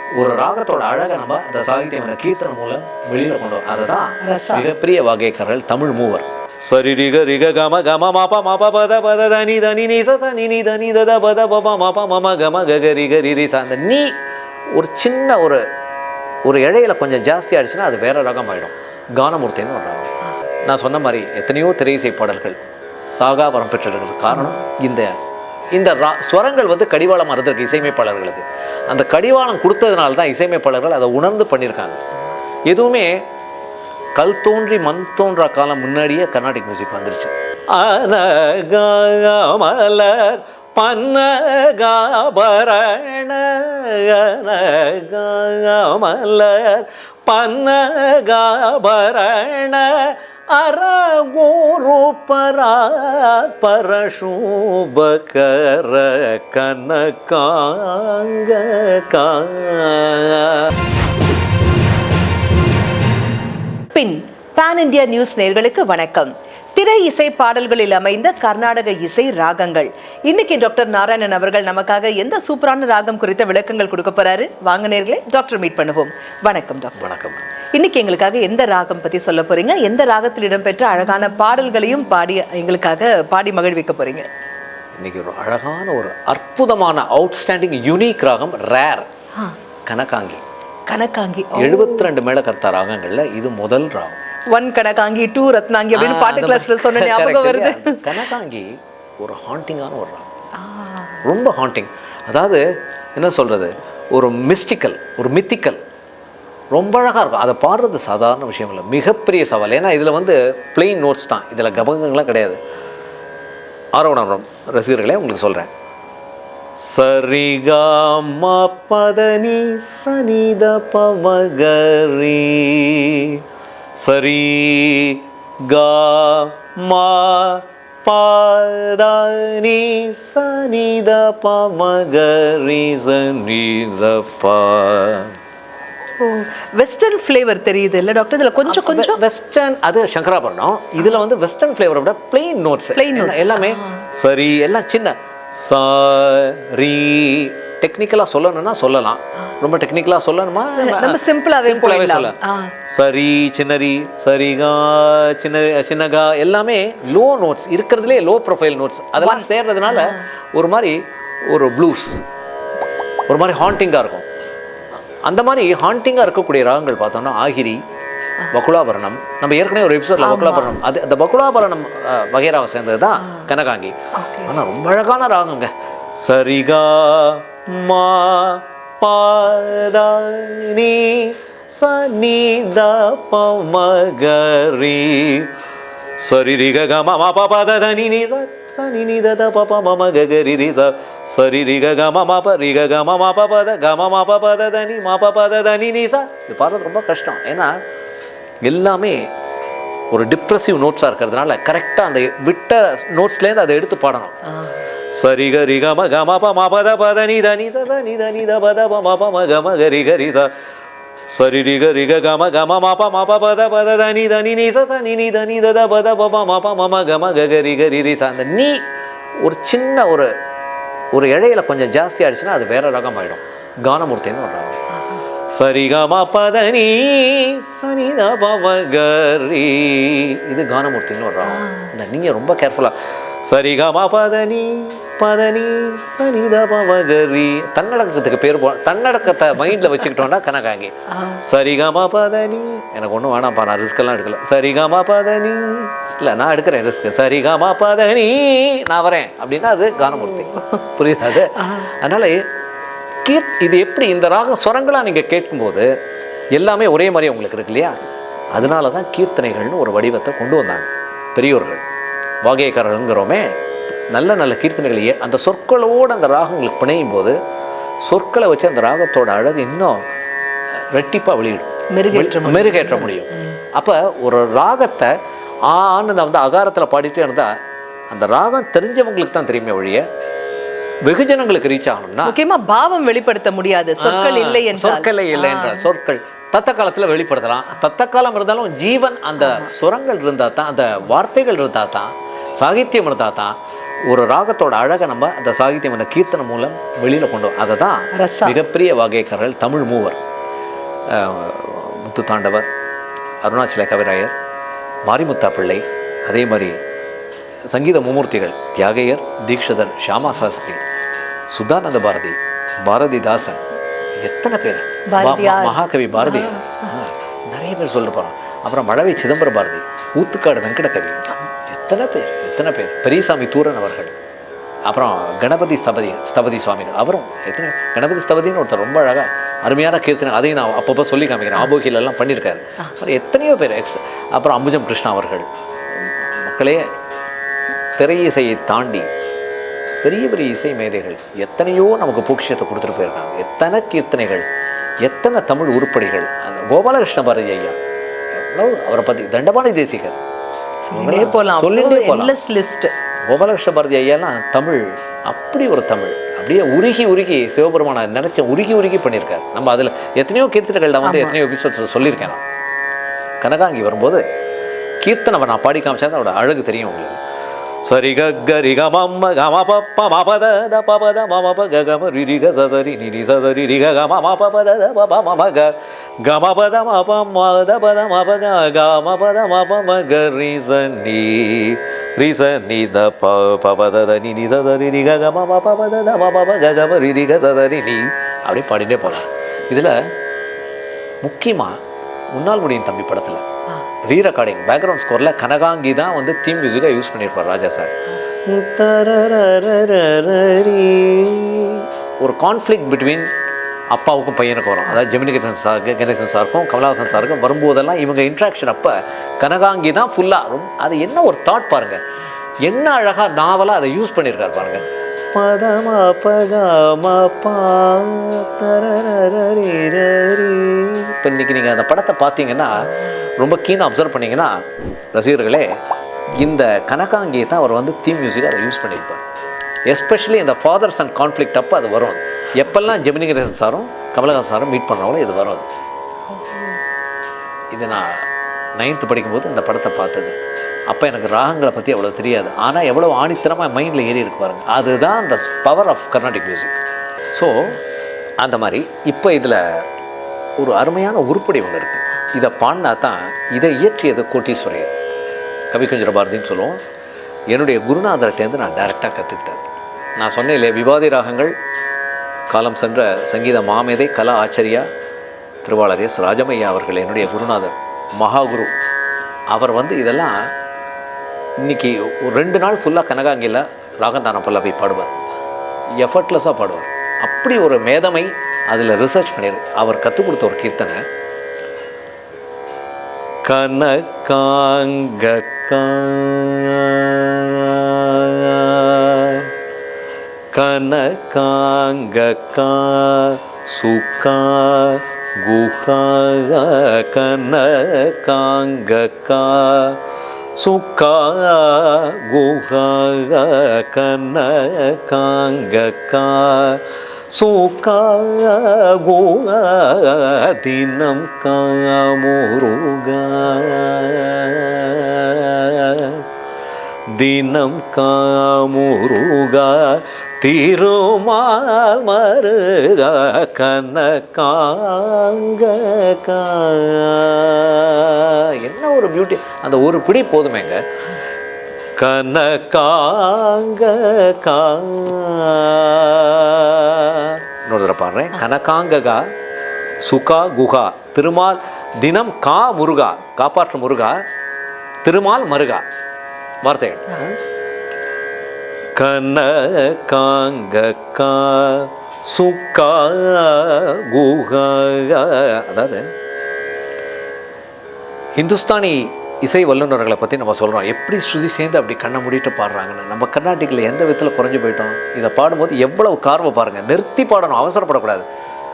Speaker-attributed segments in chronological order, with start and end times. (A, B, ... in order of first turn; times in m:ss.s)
0:00.1-0:14.1 A
0:04.2-0:04.6 B
0:14.7-0:15.6 A
0:16.4-0:20.1 A
0:20.6-0:22.6 A
0:23.1-0:25.2 A
0:25.7-0:32.0 A
0:32.7-0:33.2 A
0:34.1-1:00.7 A
1:03.9-1:17.0 B
1:17.0-1:17.4 A
1:17.7-1:24.3 B
1:25.0-1:29.1 A
1:29.9-1:30.4 A
1:30.9-1:32.1 B
1:31.5-1:34.2 A
1:34.5-1:38.0 B
1:35.9-1:38.7 A
1:39.2-1:40.3 A
1:40.6-1:41.2 B
1:41.2-1:42.6 A
1:43.2-1:45.8 A
1:46.7-1:52.6 A
1:53.9-1:55.7 A
1:56.8-2:03.4 A
2:04.0-2:15.3 A
2:16.2-2:19.2 B
2:18.6-2:32.3 A
2:22.9-2:24.0 B
2:30.8-2:32.7 B
2:32.9-2:41.0 A
2:39.2-2:40.2 B
2:41.5-2:42.2 A
2:43.3-2:44.2 A
2:45.2-2:47.8 A
2:48.5-3:05.5 A
2:50.2-2:50.8 B
2:54.2-2:54.5 B
3:06.2-3:17.8 A
3:18.6-3:19.3 A
3:20.1-3:24.3 A
3:24.4-3:24.8 B
3:25.1-3:30.5 A
3:31.3-3:38.8 A
3:39.4-3:40.3 A
3:41.1-3:44.8 A
3:45.5-4:12.4 A
3:51.5-3:51.9 B
4:01.1-4:01.4 B
4:10.1-4:10.8 B
4:11.5-4:11.9 B
4:13.2-4:15.9 A
4:16.5-4:18.0 A
4:18.5-4:21.8 A
4:22.4-4:23.4 A
4:24.1-4:27.4 A
4:28.0-4:30.0 A
4:30.9-4:35.1 A
4:31.9-4:33.6 B
4:35.7-4:37.5 A
4:38.1-4:40.0 A
4:41.0-4:42.3 A
4:42.2-4:45.9 B
4:44.0-4:53.6 A
4:49.4-4:49.7 B
4:54.1-5:00.2 A
4:58.1-4:58.6 B
5:01.1-5:02.7 A
5:03.4-5:04.3 A
5:05.0-5:06.8 A
5:07.7-5:10.8 A
5:11.5-5:13.6 A
5:14.2-5:24.1 A
5:15.1-5:16.9 B
5:24.9-5:35.4 A
5:36.4-5:36.8 A
5:38.0-5:39.1 A
5:40.0-5:44.4 A
5:45.0-5:47.8 A
5:48.3-5:50.2 A
5:50.8-5:52.9 B
5:50.9-5:52.3 A
5:53.3-6:02.4 A
6:01.0-6:01.3 B
6:03.4-6:04.2 A
6:05.0-6:07.2 A
6:07.8-6:30.1 A
6:31.2-6:31.8 A
6:32.3-6:33.4 A
6:34.1-6:37.9 A
6:38.5-6:43.3 A
6:43.9-6:52.0 A
6:52.6-7:04.6 A
7:05.1-7:05.8 A
7:06.4-7:09.2 A
7:09.9-7:15.7 A
7:16.3-7:16.8 B
7:17.7-7:20.4 A
7:20.9-7:26.8 A
7:27.3-7:27.8 A
7:28.4-7:29.8 A
7:30.6-7:34.9 A
7:35.7-7:36.8 A
7:37.5-7:39.6 A
7:40.2-7:41.5 A
7:42.5-7:44.9 A
7:45.6-7:48.7 A
7:49.5-7:50.4 A
7:51.6-7:55.2 A
7:56.0-8:01.0 A
8:03.4-8:09.4 A
8:10.5-8:20.0 A
8:20.6-8:36.2 A
8:37.2-8:50.8 A
8:52.0-8:59.3 A
9:00.0-9:04.2 A
9:05.0-9:05.8 A
9:06.6-9:07.4 A
9:09.0-9:16.1 A
9:18.4-9:28.2 A